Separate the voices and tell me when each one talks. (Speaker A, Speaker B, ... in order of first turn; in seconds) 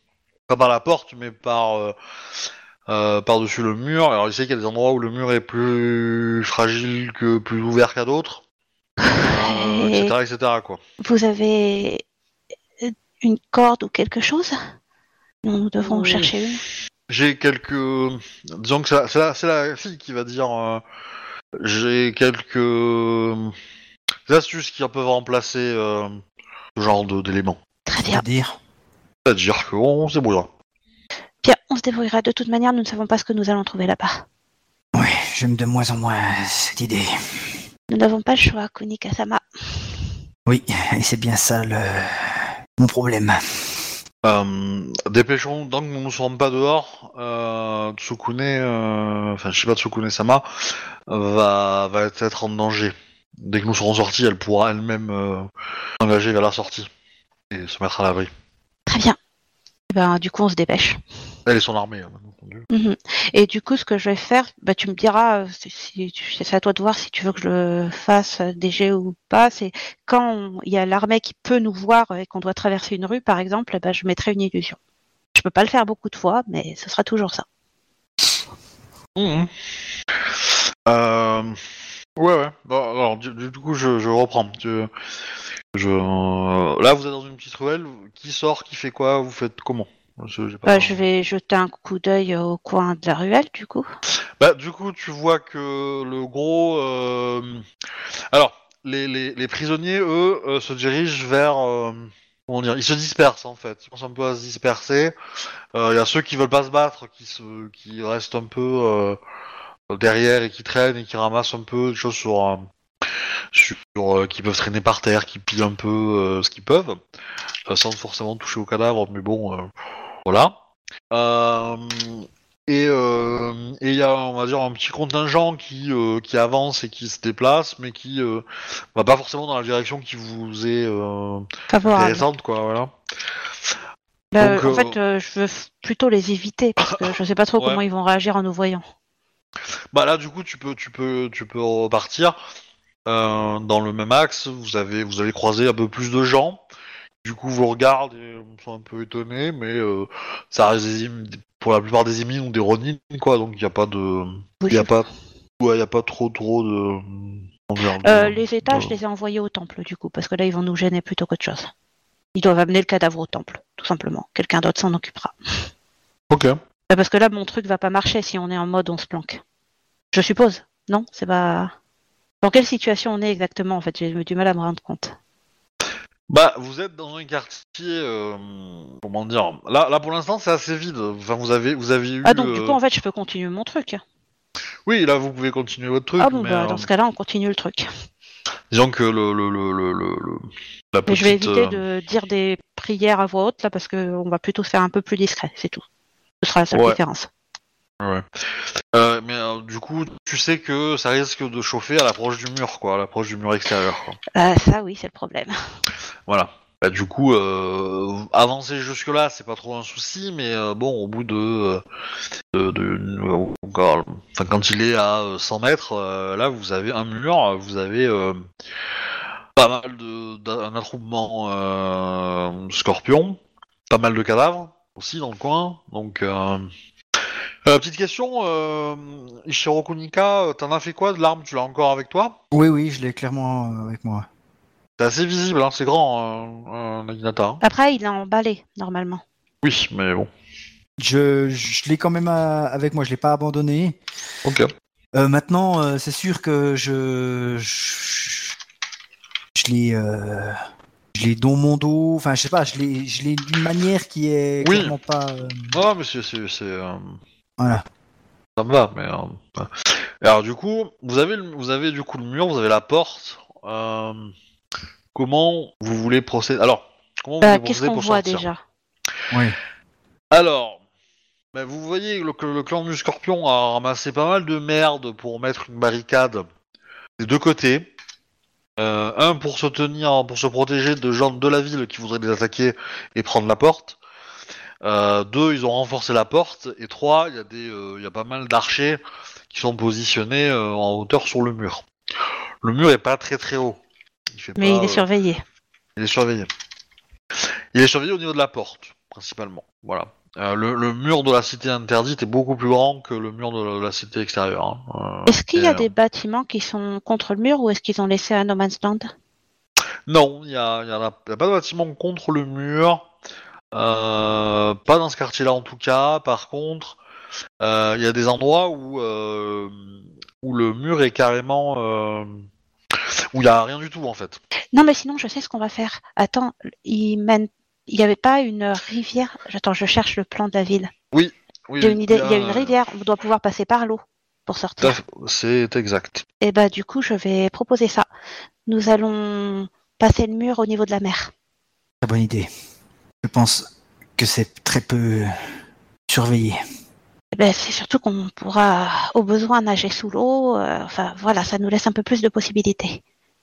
Speaker A: 0.5-1.9, 2.9-8.4, 9.2-10.8, 15.9-16.4, 17.1-20.8, 21.6-23.5, 24.3-26.2, 26.8-27.6, 29.3-30.5, 44.2-55.5, 56.0-56.9, 57.5-58.3, 61.5-62.7, 79.2-79.5, 80.9-81.6, 82.2-84.9, 85.7-91.0, 94.4-97.7, 98.3-105.2, 105.8-109.2, 109.9-112.7, 113.5-117.0, 117.7-119.7, 120.3-120.5, 121.1-132.9, 134.4-135.0, 136.9-137.8, 139.9-142.4, 143.1-146.6, 147.2-155.1, 155.6-159.0, 166.3-166.6, 176.3-182.8, 184.9-186.9, 188.7-191.8, 196.7-197.0, 198.9-204.2, 206.3-211.8, 212.5-218.4, 219.6-223.4, 223.9-226.7, 227.7-232.4, 235.0-237.6, 239.6-240.3, 244.4-244.7, 254.6-254.9, 255.7-257.2, 258.6-264.3, 265.1-268.5, 270.3-270.8, 271.5-276.5, 277.2-277.9, 278.8-284.0, 284.8-289.0, 289.5-291.9, 292.6-293.8, 294.3-295.1, 296.0-296.5, 297.7-305.9, 310.1-313.1, 313.7-317.0, 317.6-322.4, 323.3-324.4, 331.1-332.8, 334.8-336.2
Speaker B: 9.0-10.1, 11.0-12.0, 12.8-14.6, 15.4-16.6, 27.9-28.2, 31.4-34.2, 37.9-39.9, 58.9-59.2, 59.9-61.0, 62.7-74.8, 75.3-77.5, 90.7-93.9, 131.7-132.2, 134.3-138.8, 154.6-154.9, 158.0-161.7, 162.3-165.4, 166.9-169.4, 170.1-171.7, 172.4-175.2, 182.2-184.0, 186.2-187.9, 191.1-195.8, 196.4-197.3, 204.3-205.5, 237.6-239.2, 267.4-268.6, 294.6-295.4, 305.3-309.1, 324.7-330.9, 331.8-335.0, 336.4-338.1, 338.7-341.3, 347.3-353.0
Speaker C: 28.1-28.6, 34.9-37.6, 40.5-43.9, 232.5-234.3, 241.0-244.0, 245.2-248.6, 249.6-250.6, 251.1-255.8, 269.3-269.6, 342.0-342.5, 343.2-345.4, 346.1-346.6